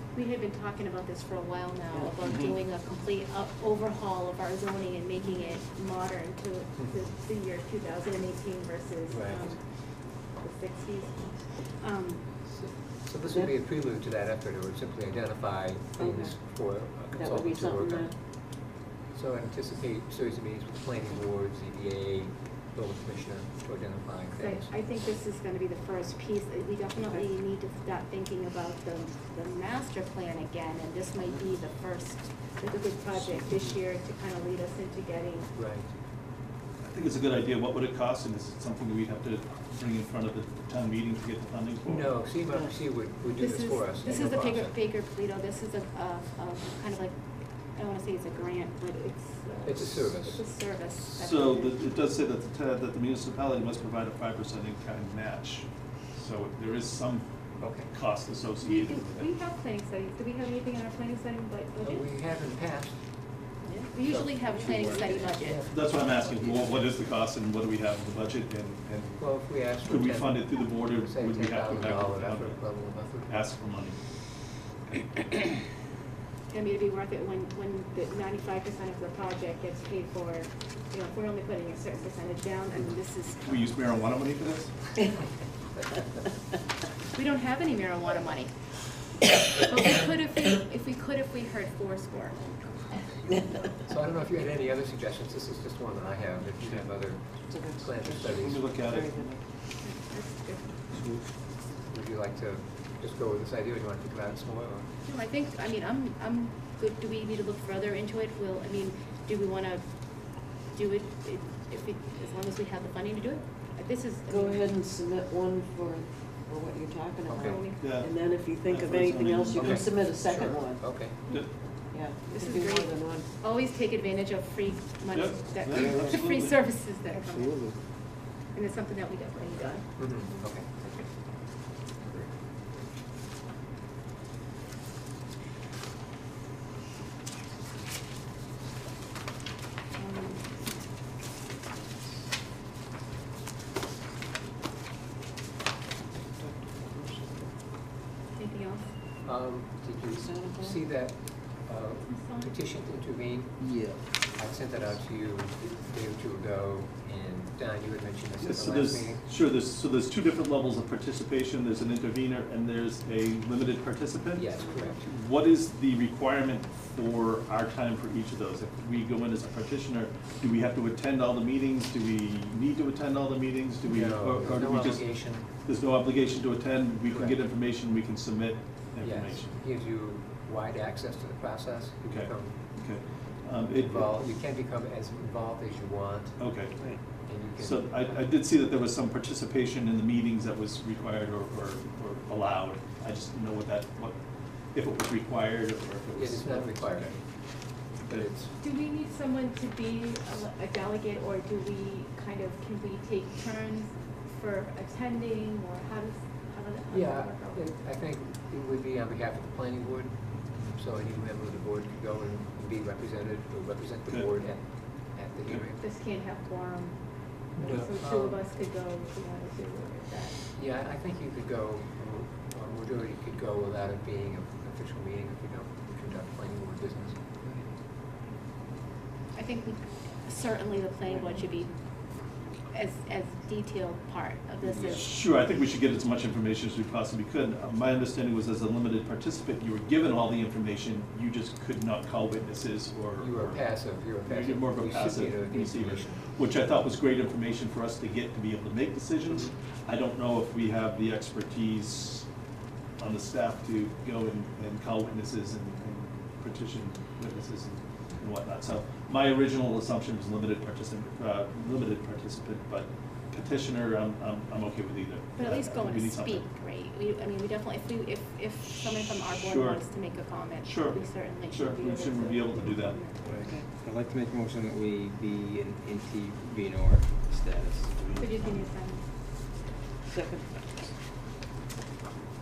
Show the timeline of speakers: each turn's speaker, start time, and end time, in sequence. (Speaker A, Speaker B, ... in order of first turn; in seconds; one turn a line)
Speaker A: 0.1-12.3
Speaker B: 2.2-2.5
Speaker C: 9.1-9.6
Speaker C: 12.4-18.3
Speaker D: 16.0-16.4
Speaker D: 16.9-18.1
Speaker C: 19.1-24.7
Speaker A: 24.4-35.5
Speaker C: 33.1-33.8
Speaker C: 35.5-35.9
Speaker B: 36.8-42.2
Speaker C: 41.9-44.7
Speaker A: 43.4-51.9
Speaker C: 49.6-50.4
Speaker B: 51.0-59.3
Speaker C: 57.6-57.9
Speaker A: 58.6-62.1
Speaker C: 61.8-63.2
Speaker A: 63.6-65.7
Speaker C: 64.0-64.4
Speaker E: 64.6-65.2
Speaker C: 65.3-65.8
Speaker B: 65.7-74.0
Speaker C: 69.2-73.4
Speaker A: 76.5-83.9
Speaker B: 83.4-85.0
Speaker A: 87.1-88.8
Speaker A: 89.5-92.4
Speaker C: 93.3-98.7
Speaker D: 97.4-99.3
Speaker B: 98.3-99.4
Speaker A: 99.8-100.8
Speaker E: 100.9-101.2
Speaker C: 101.9-104.9
Speaker A: 105.0-114.7
Speaker D: 114.3-121.2
Speaker C: 117.3-117.7
Speaker A: 117.3-117.9
Speaker B: 117.8-119.9
Speaker C: 119.6-121.2
Speaker A: 121.3-127.8
Speaker D: 121.9-123.3
Speaker B: 125.1-126.5
Speaker E: 125.8-126.1
Speaker E: 127.2-127.8
Speaker A: 128.5-130.1
Speaker C: 130.0-130.9
Speaker A: 140.0-140.6
Speaker D: 146.4-147.4
Speaker A: 148.3-148.9
Speaker C: 149.2-159.2
Speaker D: 150.2-150.7
Speaker A: 152.1-152.6
Speaker E: 153.6-154.0
Speaker B: 158.4-164.5
Speaker C: 164.3-165.0
Speaker B: 165.0-179.6
Speaker C: 173.8-175.5
Speaker C: 177.1-177.4
Speaker C: 179.0-182.6
Speaker B: 182.1-184.1
Speaker C: 183.7-186.4
Speaker B: 186.4-194.2
Speaker C: 187.0-188.2
Speaker B: 194.7-197.2
Speaker C: 196.2-198.5
Speaker B: 197.9-198.3
Speaker A: 198.6-207.7
Speaker C: 206.9-215.8
Speaker A: 215.8-220.4
Speaker C: 217.6-218.4
Speaker C: 220.5-227.2
Speaker E: 227.4-227.7
Speaker A: 229.3-231.7
Speaker A: 232.7-235.1
Speaker E: 234.6-235.1
Speaker B: 234.9-252.3
Speaker C: 243.2-246.2
Speaker C: 249.3-249.6
Speaker B: 253.0-266.4
Speaker A: 265.4-273.3
Speaker B: 269.5-269.9
Speaker B: 270.6-273.5
Speaker E: 273.6-278.2
Speaker A: 278.1-279.1
Speaker D: 280.1-280.4